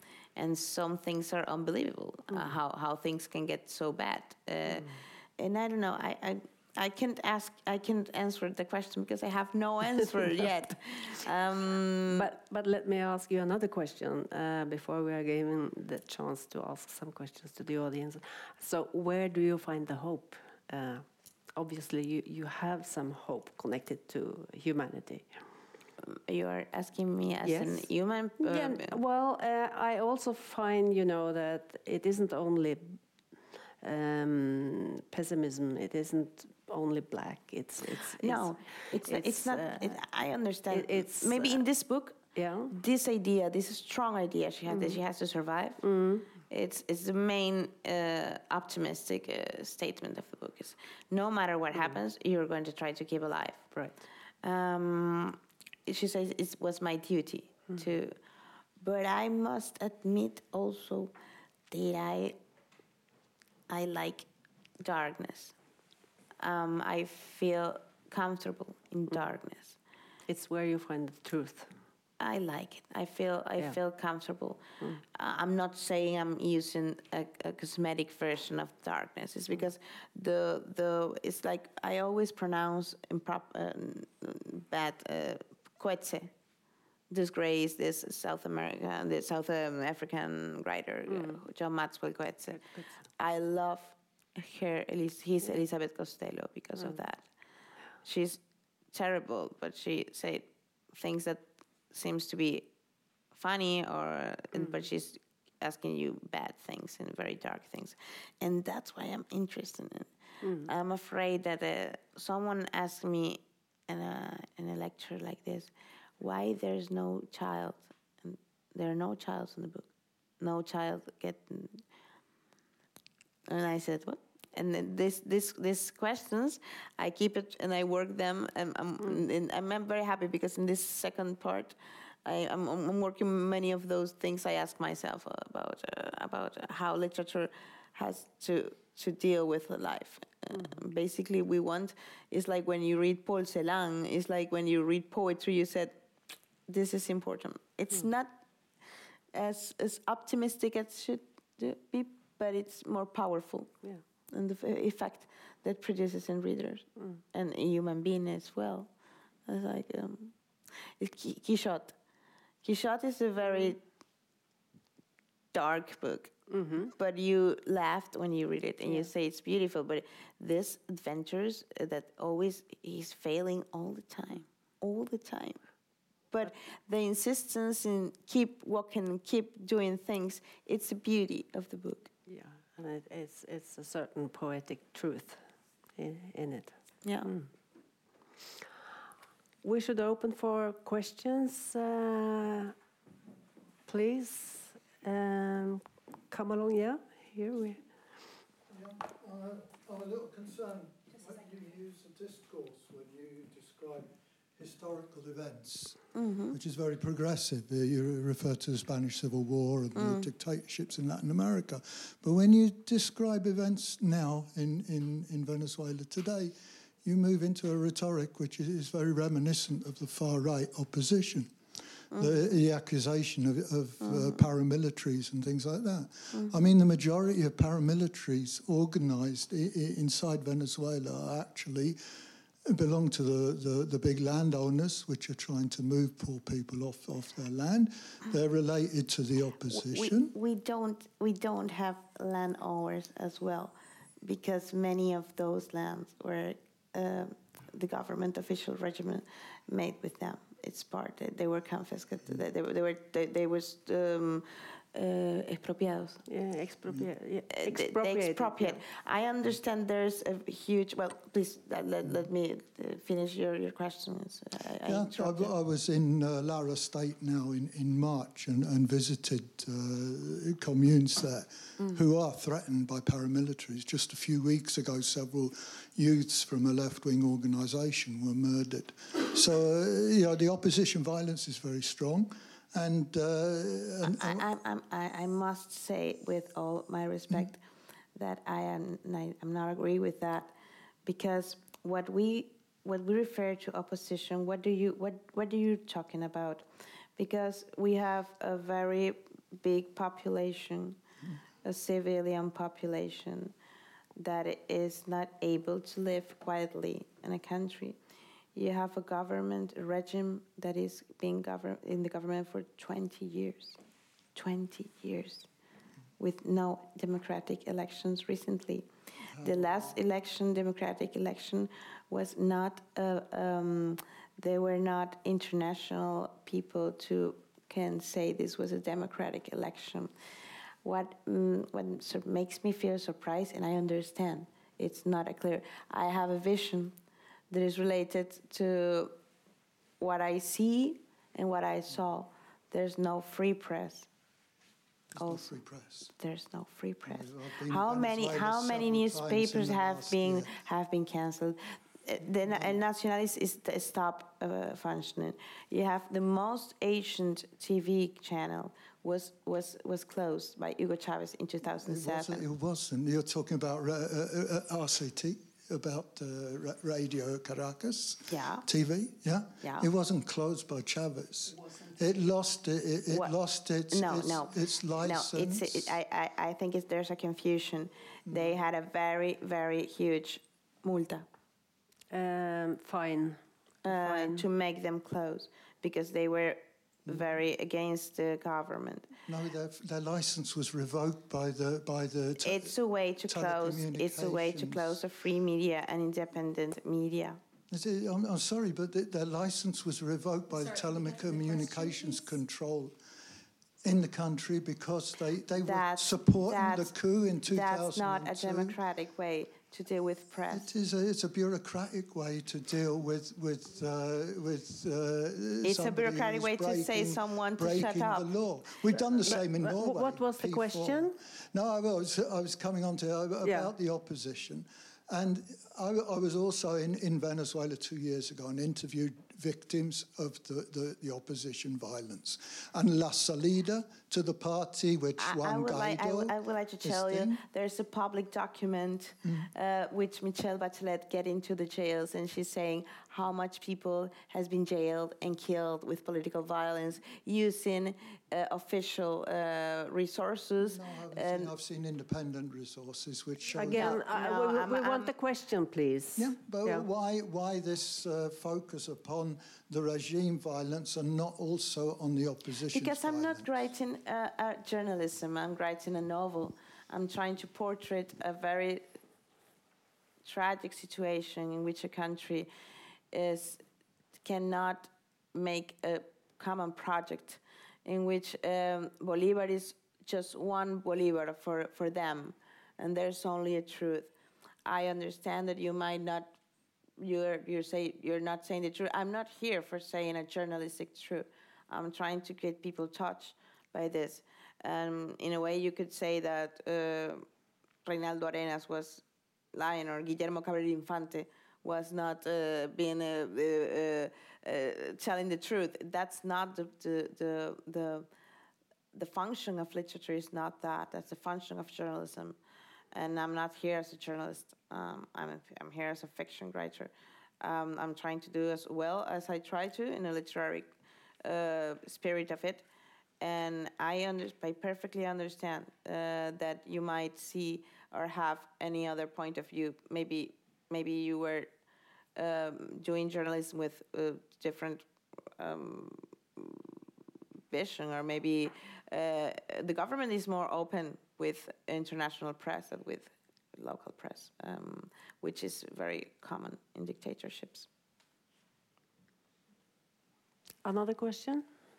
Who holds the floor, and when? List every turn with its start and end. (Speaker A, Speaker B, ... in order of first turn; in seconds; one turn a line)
Speaker A: 0.3-12.3
Speaker B: 2.3-2.5
Speaker B: 4.7-5.0
Speaker B: 12.1-25.4
Speaker A: 26.0-29.0
Speaker B: 27.4-27.9
Speaker B: 28.4-33.0
Speaker B: 33.8-40.0
Speaker A: 38.2-42.2
Speaker B: 40.7-41.6
Speaker B: 42.3-42.7
Speaker A: 42.7-45.8
Speaker B: 44.7-45.0
Speaker B: 45.8-46.3
Speaker A: 46.4-53.7
Speaker A: 54.4-58.2
Speaker A: 58.8-61.1
Speaker A: 61.7-62.4
Speaker A: 63.7-64.3
Speaker A: 64.8-65.5
Speaker A: 66.4-69.8
Speaker B: 70.3-71.8
Speaker A: 72.2-86.3
Speaker A: 87.1-97.3
Speaker B: 91.1-91.4
Speaker B: 92.5-93.0
Speaker A: 98.0-102.7
Speaker A: 103.3-119.9
Speaker B: 110.4-110.7
Speaker A: 120.4-121.8
Speaker A: 123.5-146.0
Speaker A: 146.7-148.4
Speaker A: 149.3-158.9
Speaker A: 159.4-161.9
Speaker A: 162.6-163.8
Speaker A: 165.5-166.3
Speaker B: 166.5-166.9
Speaker A: 166.8-175.6
Speaker A: 176.3-182.1
Speaker B: 182.3-185.4
Speaker B: 185.9-187.5
Speaker A: 187.0-187.3
Speaker B: 189.6-192.7
Speaker B: 193.9-197.8
Speaker C: 198.7-221.5
Speaker A: 206.1-206.6
Speaker A: 209.9-210.3
Speaker A: 222.1-222.4
Speaker C: 222.1-232.0
Speaker A: 224.0-224.4
Speaker C: 232.7-240.3
Speaker A: 239.7-256.2
Speaker B: 256.3-258.8
Speaker A: 257.5-265.5
Speaker C: 264.8-284.4
Speaker A: 284.0-287.6
Speaker A: 288.1-290.5
Speaker A: 291.0-301.0
Speaker A: 301.6-303.5
Speaker A: 304.1-308.0
Speaker A: 308.5-313.8
Speaker A: 314.3-315.5
Speaker A: 316.2-330.1
Speaker C: 319.3-319.9
Speaker A: 330.8-336.9
Speaker A: 337.5-339.1
Speaker A: 340.0-344.1
Speaker C: 345.1-346.1
Speaker A: 345.2-345.4
Speaker A: 346.1-362.4
Speaker C: 347.1-350.5
Speaker C: 361.8-376.0
Speaker A: 368.3-368.7
Speaker A: 369.6-369.9
Speaker A: 373.1-373.3
Speaker A: 373.9-381.2
Speaker C: 378.3-378.5
Speaker B: 382.1-384.4
Speaker A: 383.8-389.1
Speaker C: 389.3-392.7
Speaker A: 392.4-397.4
Speaker C: 393.3-395.0
Speaker C: 397.7-402.9
Speaker C: 403.8-408.8
Speaker A: 405.6-406.9
Speaker A: 407.4-410.7
Speaker C: 410.5-437.4
Speaker A: 415.6-418.3
Speaker A: 418.9-419.4
Speaker B: 419.4-421.1
Speaker B: 423.4-423.7
Speaker A: 435.2-451.5
Speaker C: 439.2-439.5
Speaker C: 450.6-453.9
Speaker B: 453.6-456.9
Speaker A: 453.7-455.1
Speaker C: 456.2-463.5
Speaker A: 462.7-468.9
Speaker A: 470.2-472.5
Speaker A: 473.1-473.6
Speaker A: 474.2-484.1
Speaker A: 484.6-486.4
Speaker A: 487.0-497.2
Speaker A: 497.8-508.1
Speaker A: 508.9-512.4
Speaker A: 512.9-520.7
Speaker A: 521.2-522.6
Speaker A: 523.2-531.5
Speaker A: 532.1-536.8
Speaker A: 537.5-547.7
Speaker B: 550.6-551.5